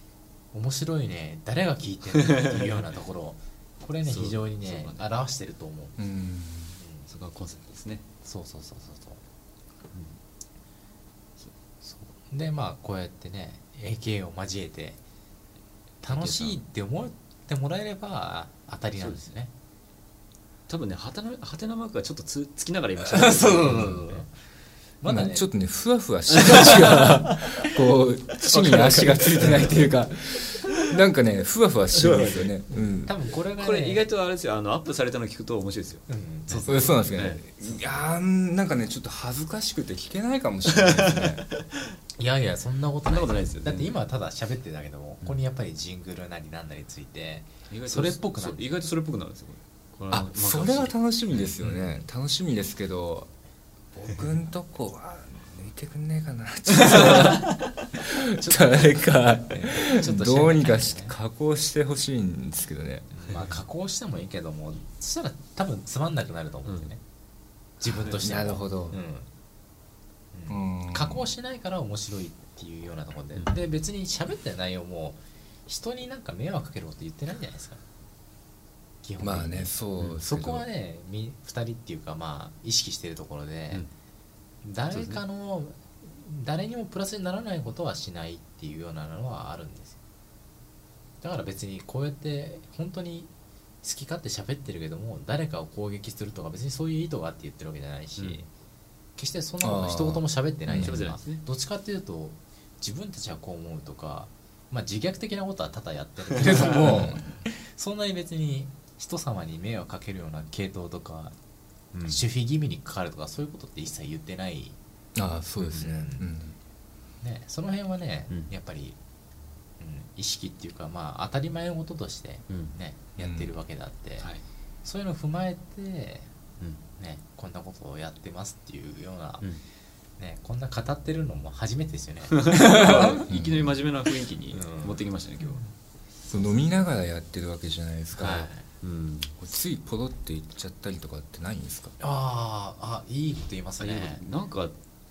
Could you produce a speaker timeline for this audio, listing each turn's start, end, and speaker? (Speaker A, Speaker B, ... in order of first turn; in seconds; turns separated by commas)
Speaker A: 0.5-6.0, Speaker B: 4.0-5.1, Speaker C: 6.0-6.8, Speaker A: 6.8-7.0, Speaker B: 7.1-8.0, Speaker A: 8.2-9.2, Speaker B: 9.9-10.2, Speaker A: 12.3-15.0, Speaker A: 16.0-19.5, Speaker B: 16.1-16.6, Speaker B: 19.0-19.3, Speaker B: 20.7-24.2, Speaker A: 23.1-24.3, Speaker A: 25.0-25.4, Speaker C: 25.0-33.1, Speaker B: 26.4-27.4, Speaker B: 28.4-29.9, Speaker B: 31.9-32.9, Speaker A: 33.0-34.0, Speaker B: 33.6-37.4, Speaker A: 36.1-37.1, Speaker C: 36.7-41.4, Speaker B: 40.7-41.7, Speaker A: 42.2-48.7, Speaker B: 43.0-43.9, Speaker B: 47.7-51.9, Speaker C: 50.1-53.3, Speaker C: 53.9-63.1, Speaker A: 57.0-57.4, Speaker A: 58.4-58.9, Speaker A: 59.5-61.1, Speaker A: 63.1-67.0, Speaker B: 66.7-66.9, Speaker A: 67.8-69.3, Speaker B: 67.9-68.1, Speaker C: 68.2-69.0, Speaker A: 70.3-77.8, Speaker C: 70.5-71.3, Speaker A: 79.0-83.8, Speaker C: 79.2-80.6, Speaker A: 84.6-90.0, Speaker B: 84.9-85.2, Speaker A: 91.2-93.3, Speaker A: 93.8-98.5, Speaker A: 99.2-111.3, Speaker C: 99.6-101.0, Speaker B: 100.8-101.4, Speaker B: 106.5-107.0, Speaker C: 106.8-107.2, Speaker B: 111.9-112.2, Speaker A: 112.0-114.8, Speaker C: 115.1-116.5, Speaker A: 115.7-116.2, Speaker A: 117.2-119.0, Speaker A: 119.8-124.2, Speaker B: 122.5-122.8, Speaker C: 123.2-123.5, Speaker A: 124.8-126.3, Speaker A: 127.0-129.5, Speaker A: 130.2-133.2, Speaker B: 132.3-135.7, Speaker C: 132.8-133.7, Speaker A: 134.5-135.7, Speaker C: 136.3-138.5, Speaker A: 138.1-138.7, Speaker B: 138.8-139.3, Speaker C: 139.4-141.9, Speaker A: 142.0-144.2, Speaker B: 143.8-144.7